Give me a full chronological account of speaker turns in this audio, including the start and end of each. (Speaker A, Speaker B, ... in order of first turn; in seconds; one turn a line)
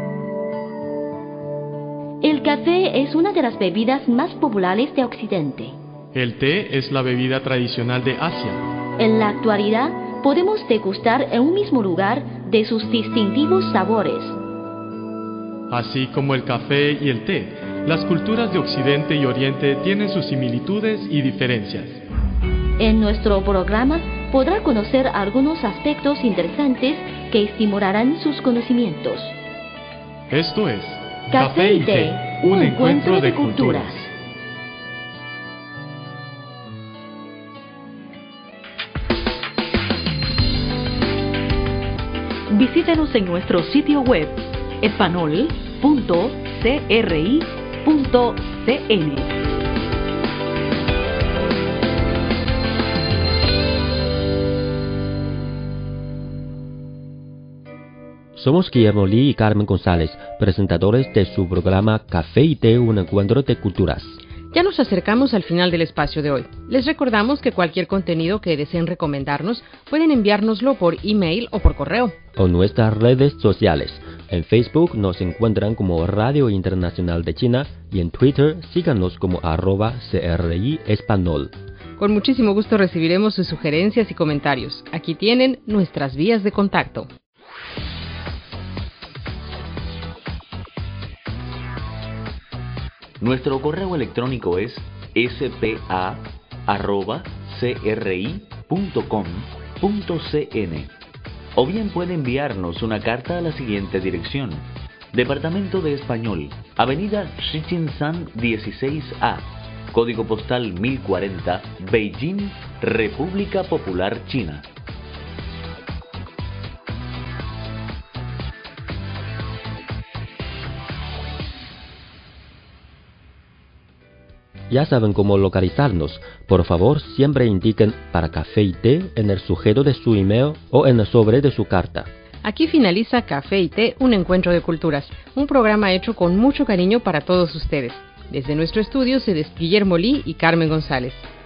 Speaker A: 2.2-5.8
Speaker B: 6.1-8.6
Speaker A: 9.0-14.4
Speaker B: 15.7-22.0
Speaker A: 22.8-29.4
Speaker B: 30.3-34.1
Speaker A: 31.3-34.0
Speaker C: 42.5-49.4
Speaker D: 58.4-64.2
Speaker E: 64.5-72.2
Speaker D: 72.3-81.5
Speaker E: 82.0-87.1
Speaker F: 93.2-100.9
Speaker F: 101.5-114.7
Speaker D: 124.7-132.1
Speaker E: 132.4-141.2